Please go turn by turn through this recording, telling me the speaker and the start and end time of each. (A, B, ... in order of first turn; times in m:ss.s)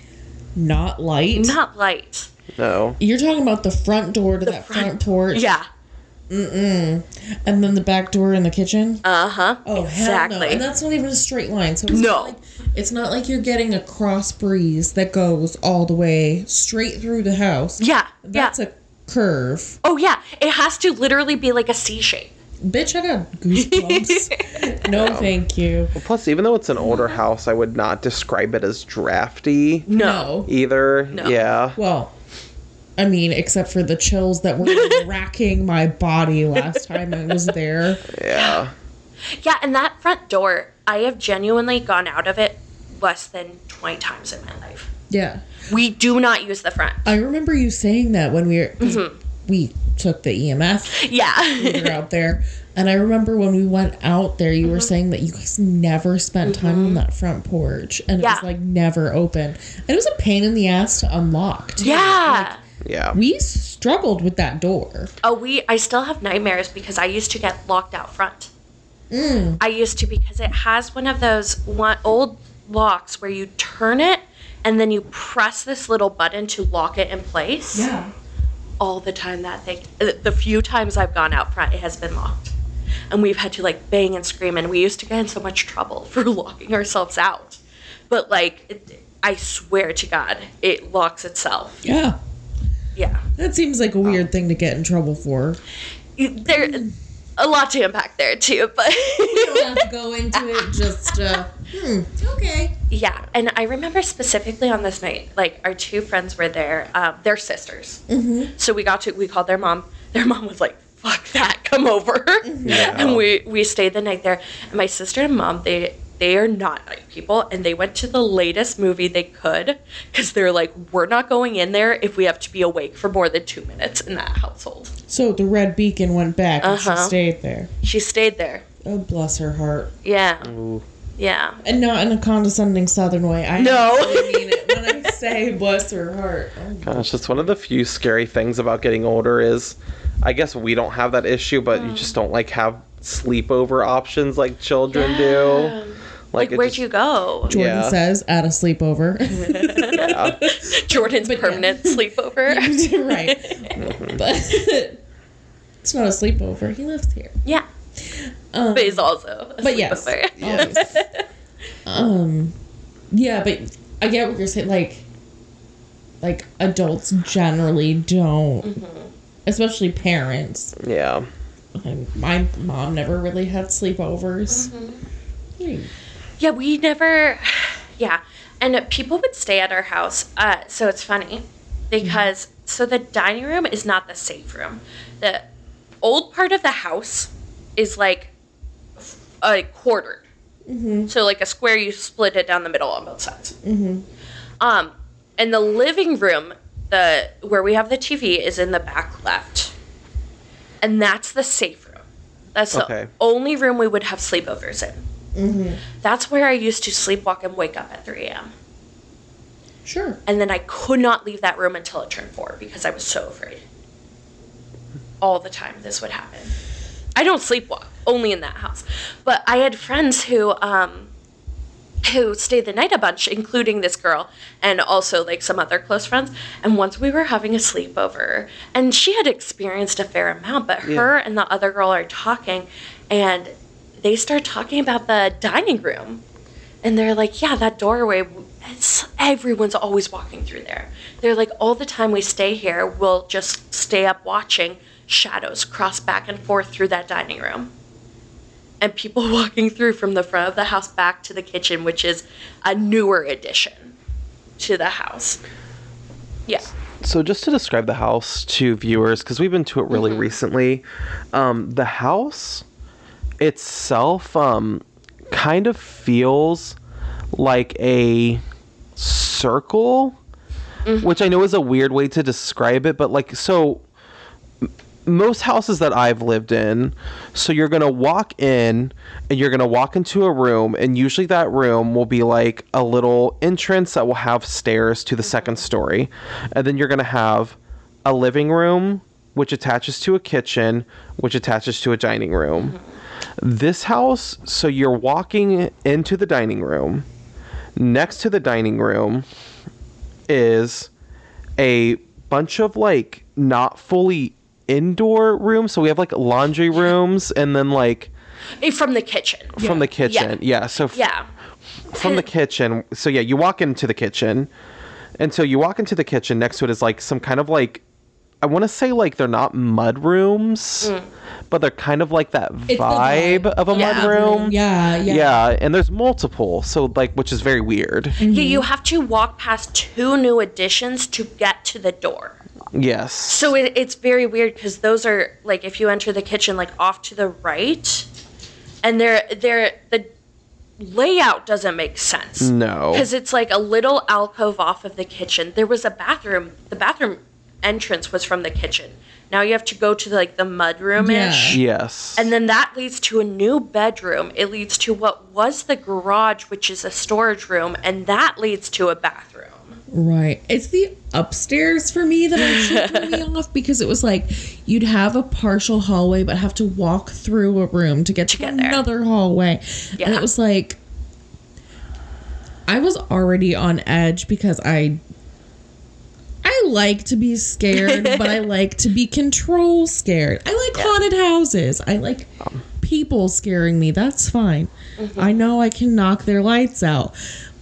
0:00.6-0:01.5 A
0:01.3-0:02.3 B
0:02.6-0:03.0 C
0:03.0-0:05.5 A
0:04.4-0:05.7 B
0:06.3-0:09.0 A
0:09.0-0:10.6 B
0:09.6-0:19.8 A
0:11.9-0:12.4 B
0:17.8-0:18.5 B
0:19.8-0:22.3 B
0:22.6-0:25.9 A
0:23.5-0:24.9 B
0:25.0-0:25.3 C
0:25.9-0:29.9 C
0:26.8-0:27.2 B
0:29.8-0:30.4 B
0:29.9-0:30.5 A
0:30.4-0:31.8 C
0:31.1-0:31.4 B
0:31.7-0:32.1 A
0:33.0-0:38.0 A
0:34.6-0:35.0 B
0:38.1-0:38.7 C
0:38.3-0:38.6 B
0:39.3-0:44.9 B
0:45.1-0:45.5 A
0:45.7-0:47.0 B
0:47.0-0:51.0 A
0:48.8-0:49.2 B
0:50.9-0:52.0 B
0:51.6-1:02.6 A
0:54.6-0:54.9 B
0:56.4-0:57.0 B
0:58.2-0:58.4 B
1:01.8-1:02.6 B
1:02.8-1:03.2 C
1:03.1-1:05.1 A
1:05.2-1:08.5 B
1:09.1-1:09.6 A
1:09.6-1:17.9 B
1:17.7-1:18.1 A
1:18.8-1:22.5 B
1:23.1-1:31.8 B
1:31.8-1:32.2 A
1:33.0-1:33.2 B
1:33.4-1:35.6 A
1:36.2-1:36.9 B
1:36.5-1:36.9 A
1:37.4-1:41.2 B
1:39.2-1:42.8 A
1:42.9-1:48.0 B
1:48.1-1:48.5 A
1:48.6-2:04.9 B
1:52.4-1:53.0 A
1:52.6-1:53.2 C
2:05.1-2:07.7 A
2:06.6-2:07.1 B
2:07.8-2:08.6 B
2:08.8-2:09.9 A
2:10.0-2:10.5 B
2:10.4-2:10.8 C
2:11.2-2:11.6 B
2:11.6-2:17.5 A
2:13.6-2:15.1 B
2:16.8-2:25.8 C
2:21.7-2:22.1 B
2:24.9-2:27.5 B
2:26.3-2:26.8 C
2:27.5-2:28.0 C
2:27.5-2:35.0 A
2:29.3-2:33.9 B
2:30.0-2:30.4 C
2:35.8-2:37.4 A
2:38.0-2:39.1 A
2:38.7-2:41.2 B
2:39.6-2:41.0 A
2:41.8-2:42.5 A
2:43.1-2:45.0 A
2:46.2-2:48.7 A
2:48.6-2:49.1 B
2:49.4-2:50.8 A
2:50.8-2:51.3 C
2:51.7-2:54.7 A
2:54.5-2:55.0 B
2:55.6-2:55.9 A
2:56.4-3:05.5 B
3:02.0-3:02.3 A
3:06.0-3:08.3 B
3:09.0-3:10.3 B
3:10.7-3:11.1 A
3:11.1-3:13.6 B
3:13.6-3:14.0 A
3:14.6-3:19.7 B
3:20.8-3:22.0 B
3:22.5-3:25.0 B
3:22.7-3:23.1 C
3:25.3-3:25.8 A
3:26.0-3:28.5 B
3:29.8-3:30.2 A
3:30.2-3:33.6 B
3:35.2-3:36.5 B
3:37.2-3:41.1 B
3:42.0-3:56.2 B
3:56.8-4:07.7 B
4:08.8-4:13.9 B
4:14.6-4:15.4 B
4:16.5-4:16.7 B
4:17.0-4:22.6 C
4:19.9-4:20.3 B
4:23.4-4:26.8 C
4:27.3-4:28.4 C
4:29.0-4:30.2 C
4:30.8-4:31.1 B
4:31.0-4:33.8 C
4:34.6-4:52.7 C
4:45.2-4:45.6 B
4:52.6-4:53.0 B
4:53.4-4:57.0 C
4:57.8-4:59.2 C
5:00.3-5:00.9 C
5:01.6-5:08.1 C
5:08.6-5:10.4 B
5:09.6-5:11.0 C
5:09.6-5:09.9 A
5:10.9-5:11.3 B
5:11.9-5:14.5 C
5:11.9-5:12.2 B
5:15.2-5:17.8 C
5:18.4-5:20.9 C
5:20.8-5:21.1 B
5:21.5-5:24.5 C
5:22.7-5:25.4 A
5:23.7-5:24.1 B
5:25.0-5:28.2 C
5:28.2-5:28.7 A
5:28.3-5:32.4 B
5:32.7-5:33.5 C
5:33.3-5:38.1 B
5:38.8-5:40.1 B
5:40.8-5:51.6 B
5:42.4-5:43.1 C
5:51.0-5:51.6 A
5:51.5-5:52.3 C
5:52.2-5:59.8 B
5:59.9-6:10.8 A
6:02.3-6:03.2 B
6:08.3-6:08.8 B
6:10.0-6:10.3 B
6:12.7-6:15.0 A
6:16.4-6:27.1 A
6:17.7-6:18.4 B
6:25.0-6:25.5 B